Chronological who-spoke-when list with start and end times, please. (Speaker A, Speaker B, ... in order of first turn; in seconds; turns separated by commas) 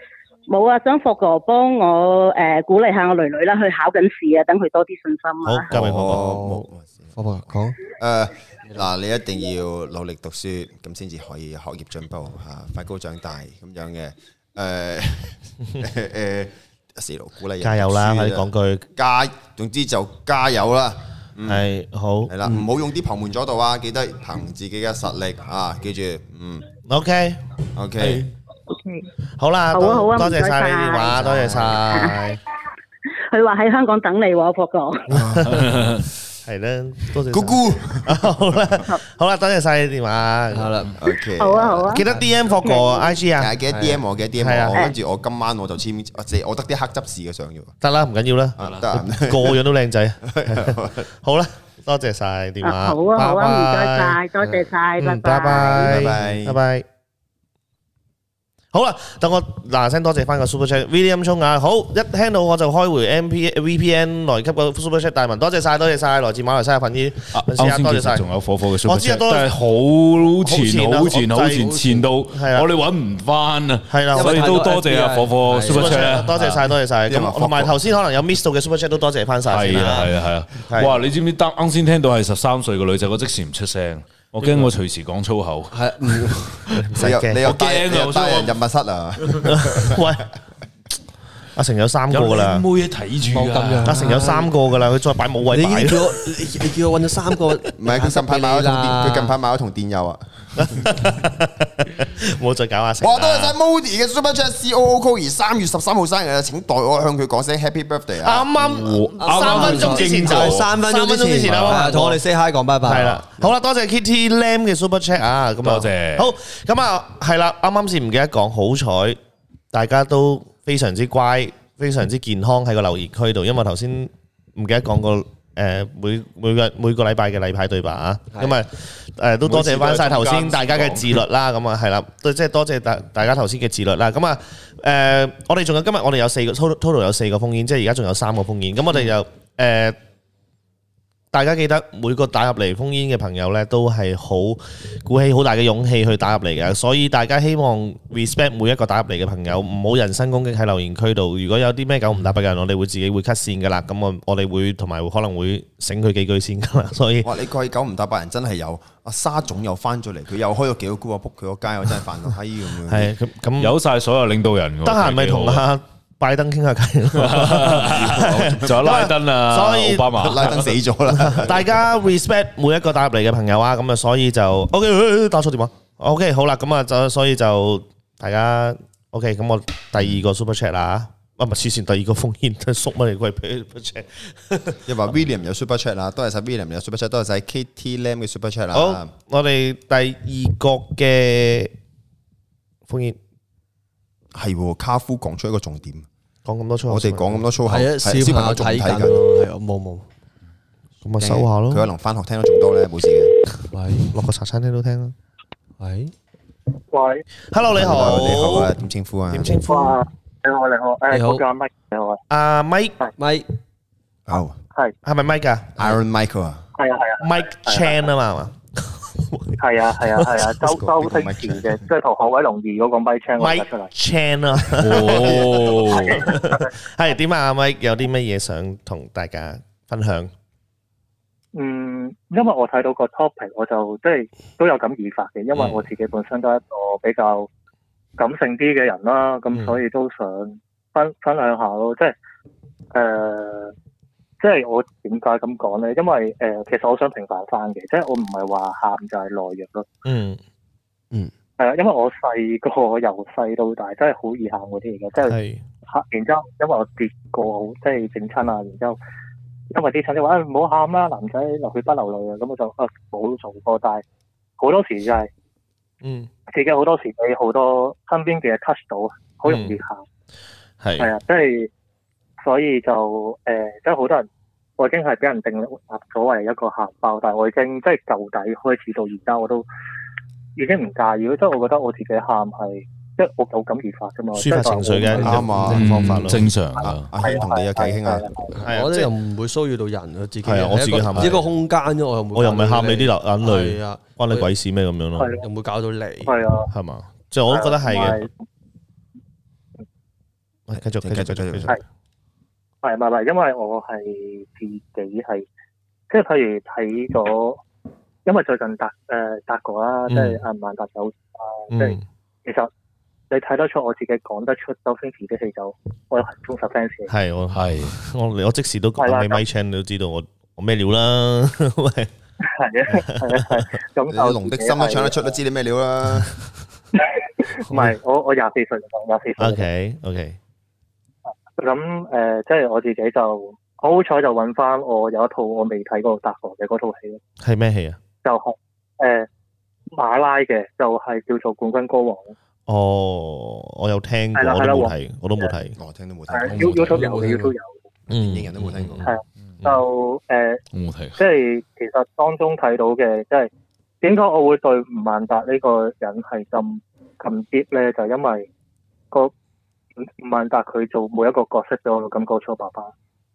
Speaker A: 0.5-5.7, Speaker B: 5.4-6.2, Speaker C: 5.7-7.1, Speaker D: 6.1-7.8, Speaker C: 7.9-21.7, Speaker B: 17.6-18.9, Speaker B: 21.5-22.3, Speaker C: 22.3-26.7, Speaker B: 26.9-28.3, Speaker C: 27.8-28.3, Speaker A: 28.7-29.0, Speaker B: 29.4-32.4, Speaker A: 29.7-32.3, Speaker D: 31.2-31.7, Speaker A: 33.3-35.1, Speaker C: 35.1-36.0, Speaker B: 35.1-35.7, Speaker E: 35.5-36.0, Speaker B: 36.5-40.7, Speaker C: 37.3-38.3, Speaker D: 40.5-40.9, Speaker C: 41.0-42.0, Speaker A: 41.4-42.0, Speaker B: 41.8-43.5, Speaker A: 42.6-43.0, Speaker C: 43.4-47.8, Speaker D: 43.7-44.0, Speaker B: 44.4-44.8, Speaker B: 47.8-54.2, Speaker C: 48.6-49.6, Speaker E: 48.6-48.9, Speaker C: 50.3-51.0, Speaker A: 52.6-56.0, Speaker B: 55.0-56.9, Speaker C: 55.5-56.6, Speaker B: 58.7-68.2, Speaker E: 67.3-76.4, Speaker B: 68.8-69.5, Speaker B: 70.4-72.7, Speaker B: 73.9-74.6, Speaker D: 74.1-76.5, Speaker B: 75.7-80.1, Speaker C: 77.1-77.7, Speaker E: 79.5-85.7, Speaker B: 80.7-81.0, Speaker D: 84.4-84.7, Speaker D: 85.7-86.8, Speaker B: 87.0-87.4, Speaker C: 87.0-90.0, Speaker E: 87.4-88.6, Speaker B: 89.5-90.3, Speaker B: 91.6-92.7, Speaker E: 92.1-94.0, Speaker D: 93.3-94.5, Speaker B: 93.9-96.1, Speaker D: 95.5-99.4, Speaker C: 97.8-100.9, Speaker B: 100.6-103.5, Speaker C: 103.0-108.5, Speaker B: 108.2-112.2, Speaker E: 108.6-110.7, Speaker D: 109.2-113.2, Speaker E: 111.5-111.8, Speaker B: 112.8-119.2, Speaker E: 115.6-116.3, Speaker B: 119.7-140.0, Speaker E: 129.5-131.2, Speaker B: 141.3-157.3, Speaker C: 157.2-163.1, Speaker B: 162.9-163.8, Speaker E: 163.6-165.6, Speaker B: 164.8-170.1, Speaker E: 167.2-170.7, Speaker C: 167.8-168.9, Speaker C: 170.1-171.7, Speaker B: 171.1-184.8, Speaker C: 184.9-189.1, Speaker B: 188.7-191.7, Speaker B: 192.9-193.2, Speaker C: 194.3-196.1, Speaker B: 196.5-197.4, Speaker C: 196.9-199.2, Speaker D: 197.7-200.1, Speaker B: 201.0-201.9, Speaker C: 201.2-203.3, Speaker D: 203.7-204.1, Speaker B: 204.1-205.1, Speaker D: 205.8-206.1, Speaker F: 206.9-207.2, Speaker B: 207.5-208.7, Speaker C: 207.7-209.6, Speaker B: 209.3-210.0, Speaker F: 209.7-212.2, Speaker D: 211.1-211.4, Speaker B: 212.3-213.0, Speaker D: 213.2-213.5, Speaker C: 214.3-214.6, Speaker B: 215.0-215.9, Speaker C: 215.8-216.6, Speaker F: 216.8-218.0, Speaker B: 217.2-220.5, Speaker F: 219.6-223.9, Speaker C: 220.6-221.8, Speaker B: 223.4-230.3, Speaker E: 224.8-226.3, Speaker F: 225.9-226.7, Speaker F: 231.5-237.5, Speaker F: 238.2-242.2, Speaker F: 242.9-243.7, Speaker F: 244.4-249.9, Speaker B: 250.1-250.4, Speaker F: 251.6-255.4, Speaker B: 255.3-255.6, Speaker F: 255.9-259.0, Speaker F: 259.7-264.0, Speaker F: 264.6-265.3, Speaker B: 266.0-266.3, Speaker F: 266.5-270.0, Speaker B: 269.5-269.8, Speaker B: 270.8-271.1, Speaker F: 271.0-271.7, Speaker F: 272.4-274.3, Speaker F: 274.8-279.7, Speaker F: 280.6-285.4, Speaker B: 284.4-286.5, Speaker D: 285.1-285.7, Speaker C: 285.2-288.5, Speaker E: 285.7-287.1, Speaker F: 287.2-288.5, Speaker D: 288.6-294.5, Speaker B: 288.6-289.1, Speaker B: 290.4-291.4, Speaker B: 292.3-295.4, Speaker D: 295.4-296.4, Speaker F: 296.2-296.7, Speaker B: 296.7-298.2, Speaker F: 297.5-298.3, Speaker B: 300.7-301.8, Speaker C: 300.7-301.8, Speaker F: 302.8-305.5, Speaker F: 306.1-307.6, Speaker F: 308.3-312.7, Speaker B: 310.1-310.4, Speaker B: 311.7-312.0, Speaker F: 313.3-317.1, Speaker B: 317.1-322.1, Speaker E: 317.5-318.0, Speaker F: 319.0-319.4, Speaker F: 322.4-325.2, Speaker B: 323.1-323.6, Speaker C: 324.1-326.4, Speaker F: 327.0-329.7, Speaker B: 329.4-330.4, Speaker F: 331.6-337.2, Speaker B: 337.4-338.0, Speaker F: 338.2-339.3, Speaker F: 339.9-342.3, Speaker B: 342.7-345.8, Speaker F: 344.4-345.4, Speaker C: 345.8-347.0, Speaker F: 346.3-347.8, Speaker D: 346.6-347.5, Speaker B: 348.1-349.1, Speaker C: 348.1-349.1, Speaker E: 348.6-348.9, Speaker F: 349.0-350.6, Speaker E: 350.7-351.2, Speaker F: 351.2-353.5, Speaker F: 354.0-358.5, Speaker F: 360.0-362.9